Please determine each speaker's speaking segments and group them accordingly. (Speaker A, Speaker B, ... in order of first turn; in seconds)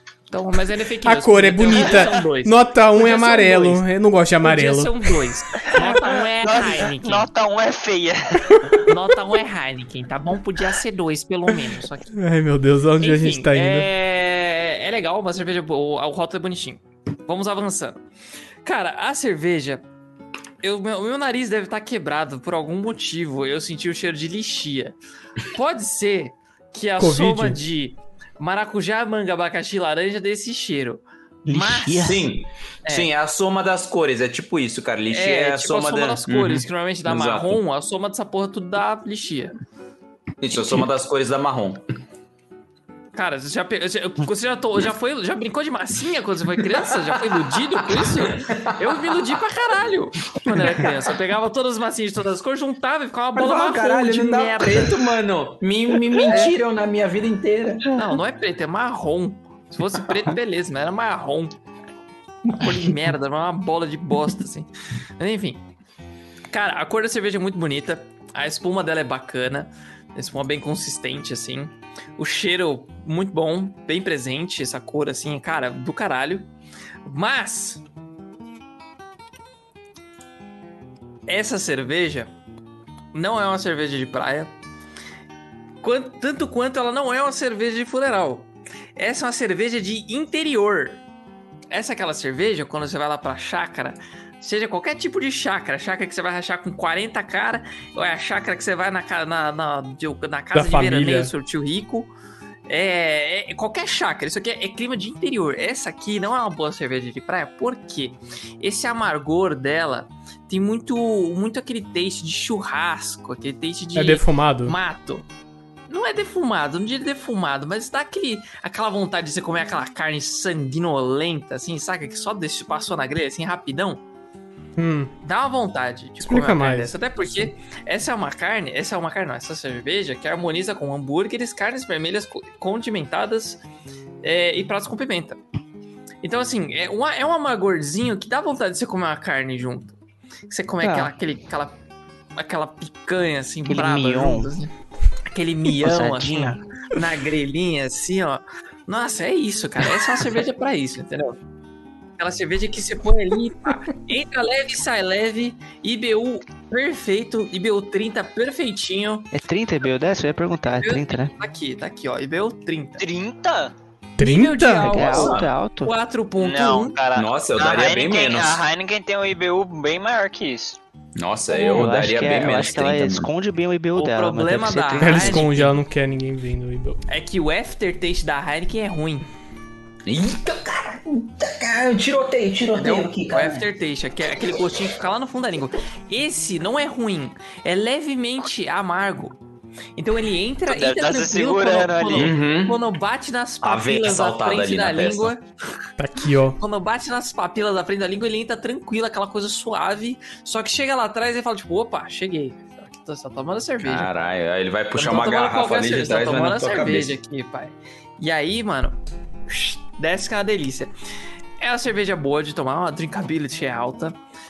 Speaker A: 0.3-3.9, 4.4-7.3, 8.8-12.1, 13.0-18.0, 18.6-19.8, 20.6-32.1, 35.1-39.5, 43.1-55.0, 57.9-61.5, 62.5-65.6, 66.5-76.5, 77.0-77.8, 81.3-82.3, 83.1-84.5, 85.8-91.0, 91.7-102.1, 102.7-115.3, 115.9-124.0, 125.2-133.6, 134.2-135.4, 136.2-139.9, 140.5-141.7, 142.4-144.7, 145.3-151.4, 152.2-159.3, 160.8-163.0, 164.2-167.0, 171.6-171.9, 173.9-175.8, 177.1-179.3, 182.8-189.3, 190.0-195.4, 196.6-204.1, 204.9-210.9, 211.6-214.2
Speaker B: 1.0-5.1, 12.2-13.9, 27.0-27.6, 100.5-101.3, 114.0-114.8, 124.8-125.1, 126.2-127.5, 164.2-165.0, 175.0-177.0, 196.0-196.6
Speaker C: 5.8-8.9, 163.0-163.8, 166.4-170.8, 190.7-192.3
Speaker D: 31.5-32.3, 140.8-141.1, 143.7-144.5, 145.7-146.6, 159.3-161.3, 164.8-165.9, 171.6-175.6
Speaker E: 32.0-37.6, 40.4-41.8, 46.9-49.3, 50.5-50.8, 53.4-58.0, 62.5-62.9, 165.0-165.5, 167.2-168.6, 171.2-173.3, 180.1-183.7, 192.2-192.8, 193.6-195.3, 203.8-207.2